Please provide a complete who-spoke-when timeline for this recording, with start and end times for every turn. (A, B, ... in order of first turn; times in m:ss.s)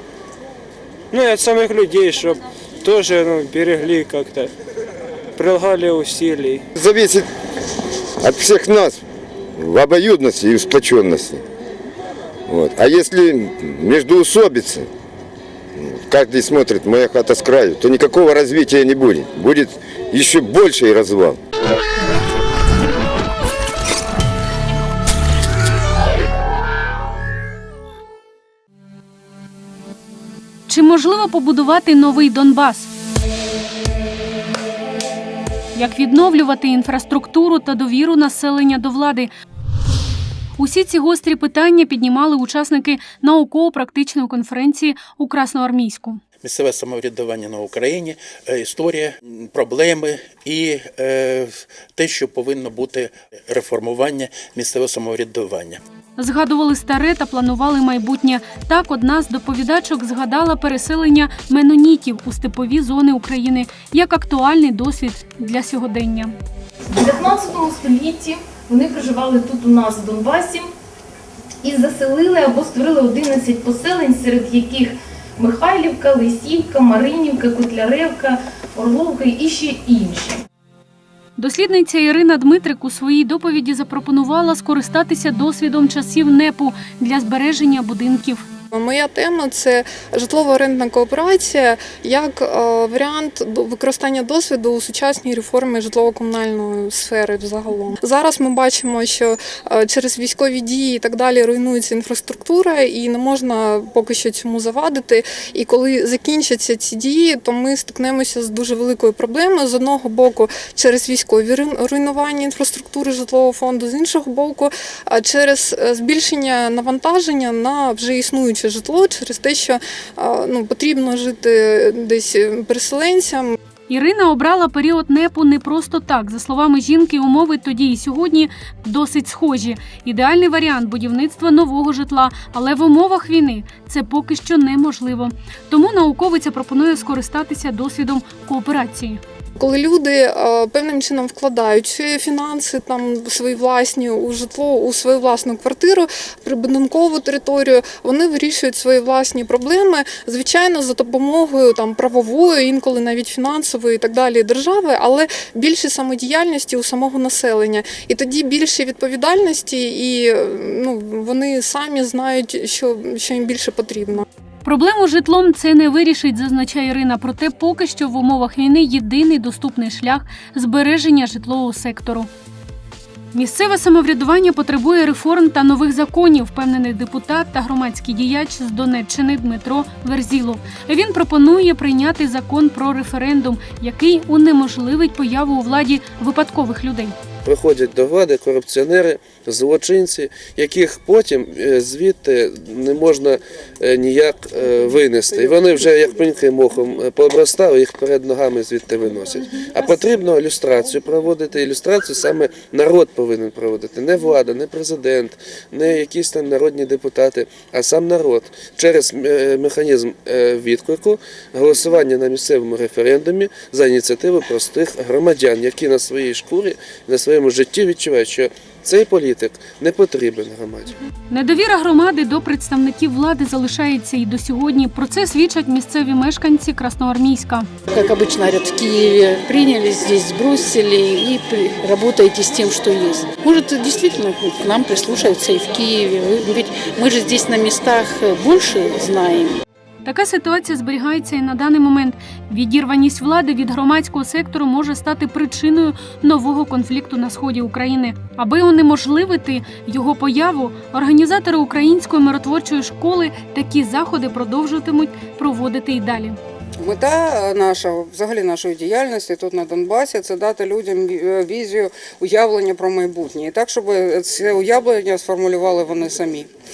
0:01.1-0:04.5 A
0:05.4-0:06.6 A
0:06.8-0:07.3 B
0:08.2-0:09.0 B
0:09.6-0:11.4 B
0:12.5-0:14.9 B
0:15.8-0:21.4 B
0:30.7-0:32.9 C
0:35.7-0:39.3 C
0:40.6-0:46.2 C
0:46.4-0:55.8 D
0:56.2-1:06.3 C
1:06.9-1:10.7 E
1:11.6-1:20.4 E
1:21.4-1:28.4 C
1:28.7-2:03.6 F
2:03.9-2:19.2 C
2:19.6-2:44.2 F
2:44.6-2:52.3 C
2:53.3-3:07.2 C
3:07.4-3:40.9 G
3:41.3-3:47.7 C
3:47.9-3:59.6 H
4:00.0-4:16.4 C
4:16.8-4:26.5 I